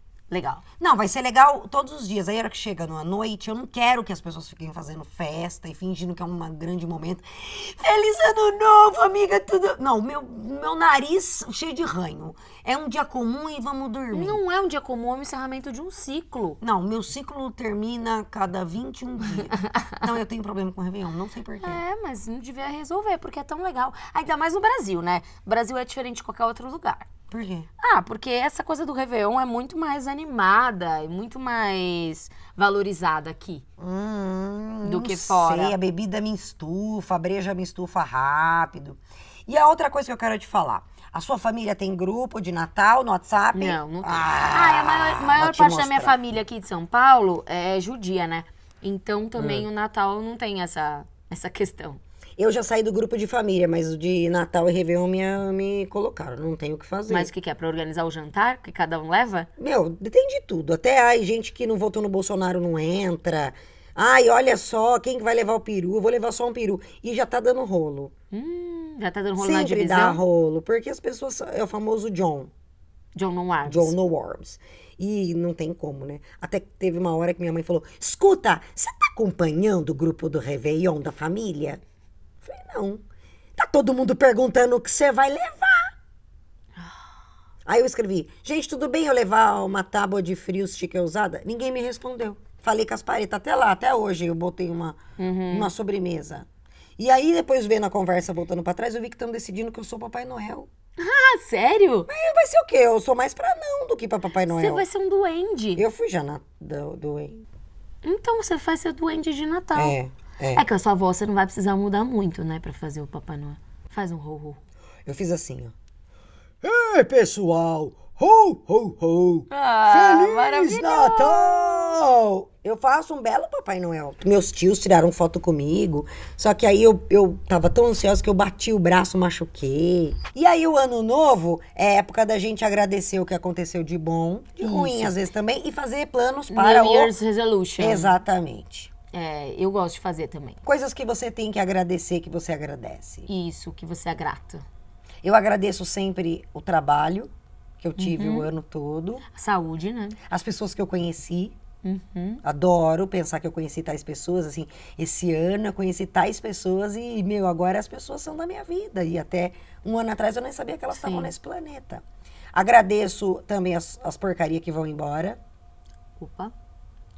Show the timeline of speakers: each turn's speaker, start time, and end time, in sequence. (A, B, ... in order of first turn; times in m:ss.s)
0:00.3-0:00.6 A
0:00.8-0:14.4 B
0:14.1-0:16.6 A
0:16.6-0:21.8 B
0:21.6-0:27.1 A
0:27.3-0:27.7 B
0:27.8-0:33.6 A
0:33.8-0:46.2 B
0:34.8-0:35.8 A
0:43.5-0:52.0 A
0:49.4-0:49.6 B
0:52.4-0:57.3 B
0:57.1-0:59.5 A
0:59.6-1:08.1 B
1:08.3-1:10.2 A
1:09.4-1:12.5 B
1:13.1-1:13.9 A
1:13.6-1:21.8 B
1:22.4-1:23.0 B
1:23.6-1:25.9 B
1:27.6-1:36.5 B
1:35.2-1:35.7 A
1:37.0-1:40.7 B
1:41.0-1:42.1 A
1:42.1-1:44.8 B
1:44.5-1:45.8 A
1:45.8-1:47.4 B
1:48.0-1:50.0 A
1:49.7-1:50.6 B
1:50.5-1:54.6 A
1:55.0-1:55.7 B
1:56.6-2:17.2 B
1:59.5-2:02.0 A
2:14.6-2:15.2 A
2:16.5-2:18.2 A
2:17.8-2:18.9 B
2:19.1-2:20.6 A
2:20.6-2:23.3 B
2:23.3-2:24.6 A
2:25.2-2:29.2 B
2:28.0-2:28.5 A
2:29.3-2:30.2 A
2:30.3-2:31.5 B
2:31.8-2:32.4 A
2:32.4-2:42.0 B
2:40.9-2:41.3 A
2:42.5-2:45.4 B
2:46.2-2:46.5 A